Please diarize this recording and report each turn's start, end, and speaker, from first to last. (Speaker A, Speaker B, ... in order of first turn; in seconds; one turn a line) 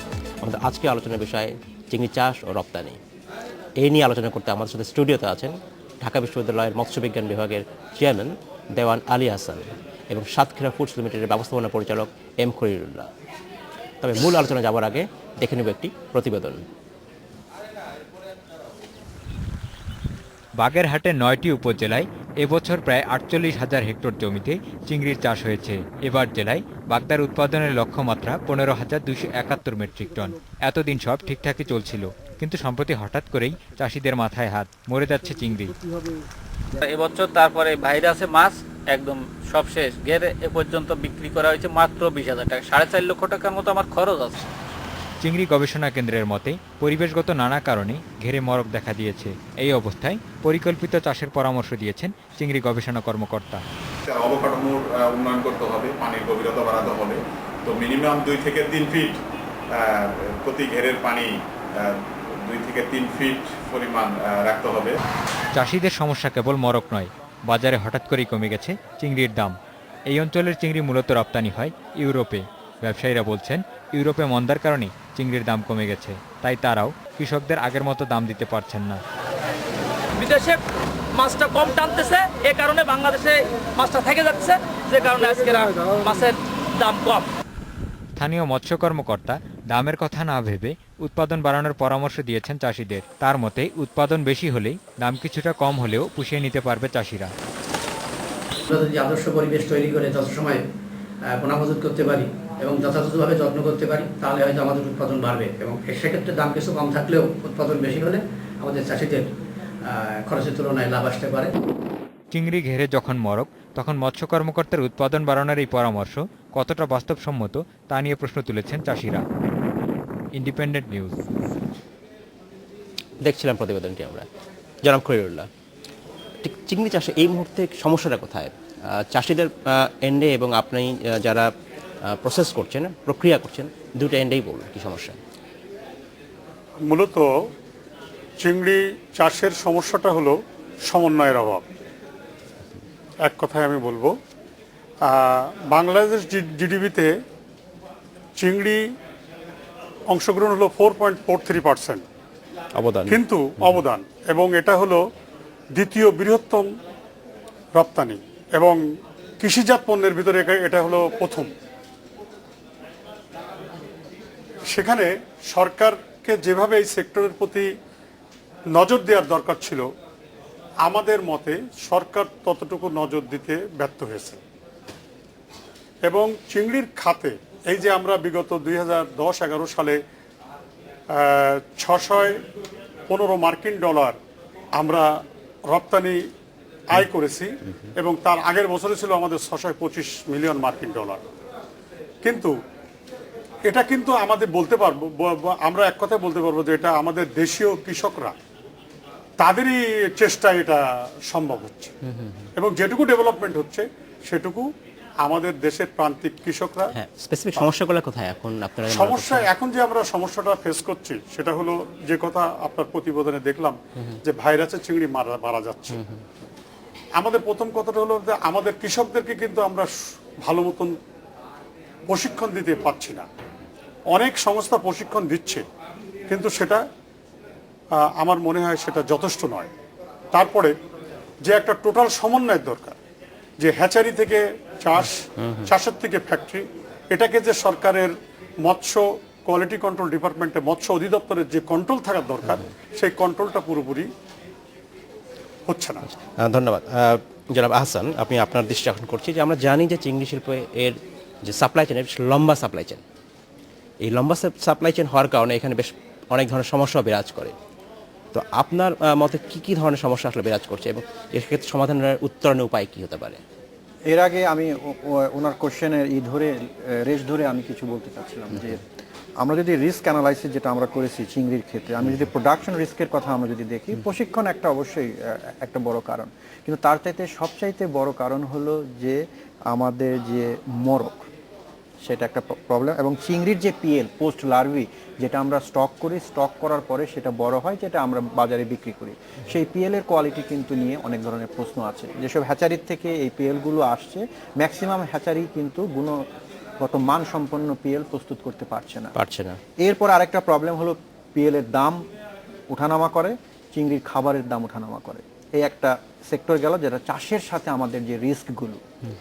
Speaker A: 0.4-3.0
Speaker A: 3.8-13.1
Speaker A: 14.0-16.6
Speaker B: 20.6-35.8
Speaker C: 36.8-44.4
Speaker B: 45.2-53.6
Speaker D: 54.1-59.1
Speaker D: 60.0-61.3
Speaker D: 62.5-65.0
Speaker B: 65.5-69.6
Speaker B: 70.1-79.0
Speaker E: 80.2-80.6
Speaker E: 81.2-87.2
Speaker F: 85.5-86.0
Speaker B: 88.2-97.3
Speaker F: 98.7-100.6
Speaker C: 99.3-100.0
Speaker F: 101.3-109.2
Speaker F: 109.9-111.5
Speaker B: 112.3-119.2
Speaker B: 120.3-121.2
Speaker A: 123.2-124.3
Speaker A: 124.8-125.5
Speaker A: 126.4-131.5
Speaker A: 132.1-135.2
Speaker G: 136.9-137.3
Speaker G: 138.4-141.6
Speaker G: 143.2-144.1
Speaker G: 145.0-147.1
Speaker G: 148.4-148.8
Speaker G: 150.1-152.0
Speaker A: 152.8-153.8
Speaker G: 153.1-155.0
Speaker G: 155.7-156.7
Speaker G: 157.7-158.8
Speaker G: 159.4-161.5
Speaker G: 164.7-167.7
Speaker G: 168.7-169.9
Speaker G: 170.8-174.4
Speaker G: 176.1-180.0
Speaker G: 181.1-182.4
Speaker G: 183.1-184.2
Speaker G: 184.8-186.2
Speaker G: 186.9-191.2
Speaker G: 192.2-192.5
Speaker G: 193.7-198.3
Speaker G: 199.4-201.9
Speaker A: 202.1-202.4
Speaker G: 202.6-204.7
Speaker G: 205.2-206.9
Speaker A: 206.9-209.5
Speaker G: 208.9-213.8
Speaker G: 214.3-215.9
Speaker A: 215.9-216.2
Speaker G: 217.2-220.9
Speaker G: 222.1-223.2
Speaker G: 224.1-225.6
Speaker G: 226.3-226.8
Speaker G: 227.9-229.7
Speaker G: 230.3-230.7
Speaker G: 231.4-232.9
Speaker G: 233.6-244.1
Speaker A: 235.4-235.7
Speaker G: 245.7-246.0
Speaker A: 246.1-253.0
Speaker A: 254.0-257.6
Speaker A: 258.3-263.4
Speaker H: 264.1-268.8
Speaker H: 269.4-281.3
Speaker H: 282.0-296.2
Speaker H: 296.8-299.1
Speaker A: 299.1-299.6
Speaker H: 299.8-302.0
Speaker H: 302.7-308.8